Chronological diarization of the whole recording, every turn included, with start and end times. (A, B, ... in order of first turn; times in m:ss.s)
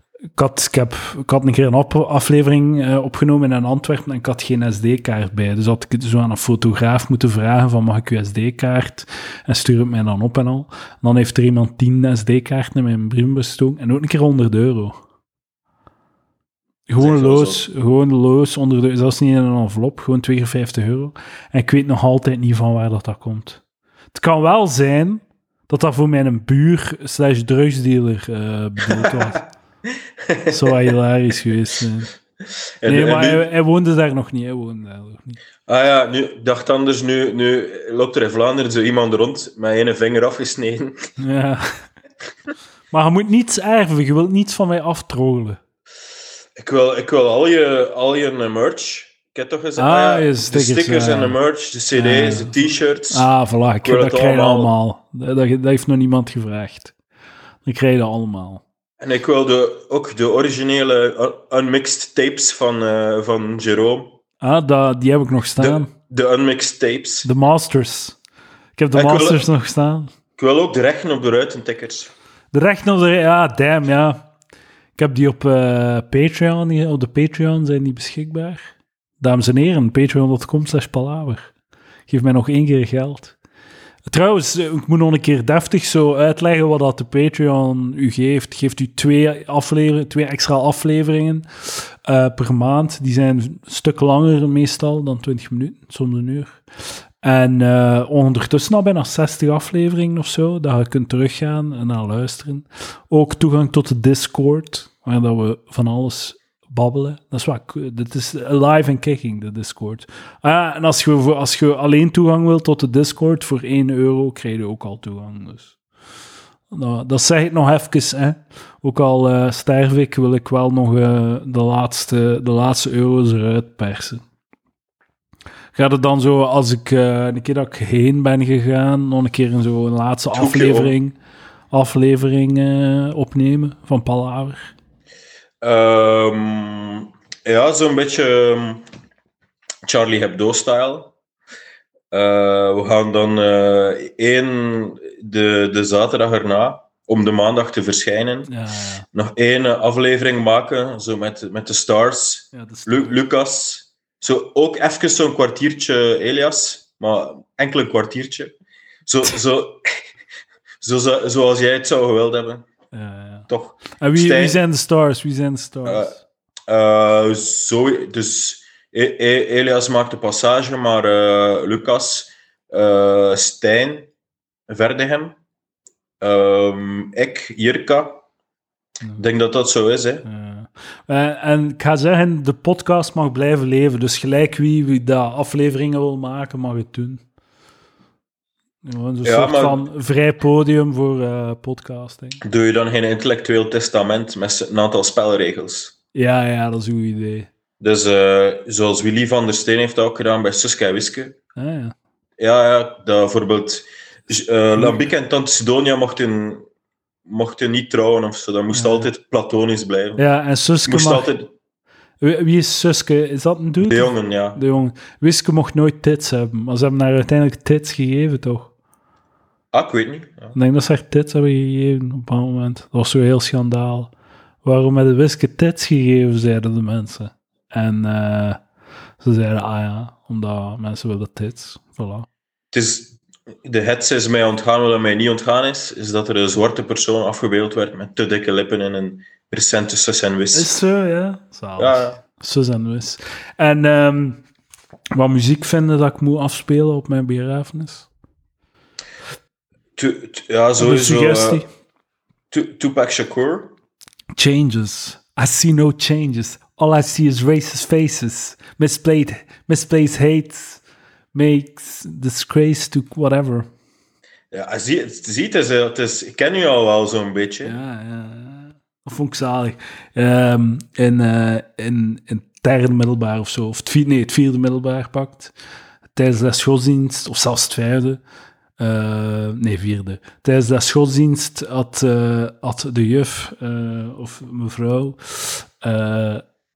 0:00.4-0:15.0 A
0:16.9-0:23.6 A
0:17.0-0:17.6 B
0:24.1-0:29.4 A
0:30.3-0:30.8 B
0:30.5-0:32.1 A
0:32.8-0:33.4 B
0:32.8-0:35.4 A
0:35.7-0:41.1 B
0:41.2-0:41.8 A
0:42.9-0:45.6 A
0:46.6-0:53.3 B
0:49.8-0:51.4 A
0:51.9-0:52.6 A
0:53.1-0:56.9 A
0:53.8-0:54.7 B
0:57.6-0:58.6 A
0:59.0-1:04.2 B
1:04.4-1:05.9 A
1:05.6-1:07.3 B
1:07.2-1:08.2 A
1:08.8-1:10.1 A
1:08.9-1:09.5 B
1:10.4-1:12.1 B
1:12.5-1:14.2 A
1:15.0-1:21.5 A
1:22.1-1:23.4 A
1:24.1-1:36.6 A
1:37.2-1:55.8 A
1:56.7-2:04.2 A
2:05.8-2:11.2 A
2:10.3-2:10.9 B
2:11.7-2:14.7 A
2:15.6-2:18.8 B
2:19.8-2:21.1 B
2:22.1-2:28.5 B
2:28.5-2:29.1 A
2:29.1-2:38.5 B
2:32.5-2:33.2 A
2:39.1-2:39.9 B
2:40.8-2:42.7 B
2:42.9-2:46.2 A
2:43.5-2:44.6 B
2:45.8-2:46.1 B
2:46.7-2:54.1 B
2:54.7-2:55.4 B
2:56.2-2:58.2 B
2:59.2-3:00.3 B
3:00.2-3:07.2 A
3:08.8-3:12.4 A
3:09.2-3:09.8 B
3:12.4-3:15.9 B
3:16.2-3:17.5 A
3:17.8-3:21.4 B
3:21.6-3:21.9 A
3:22.4-3:26.7 B
3:27.3-3:30.2 B
3:28.7-3:29.1 A
3:30.2-3:31.3 A
3:30.8-3:31.5 B
3:32.2-3:38.7 A
3:33.8-3:34.6 B
3:39.7-3:40.5 B
3:40.5-3:44.1 A
3:44.6-3:48.6 A
3:49.2-3:52.3 A
3:52.7-4:00.7 B
4:00.5-4:04.4 A
4:01.8-4:02.2 B
4:05.2-4:08.1 A
4:10.0-4:11.6 B
4:10.8-4:11.7 A
4:12.5-4:13.7 B
4:14.4-4:20.8 A
4:21.3-4:23.7 A
4:24.5-4:27.8 B
4:27.6-4:35.5 A
4:36.2-4:38.2 A
4:38.8-4:46.4 A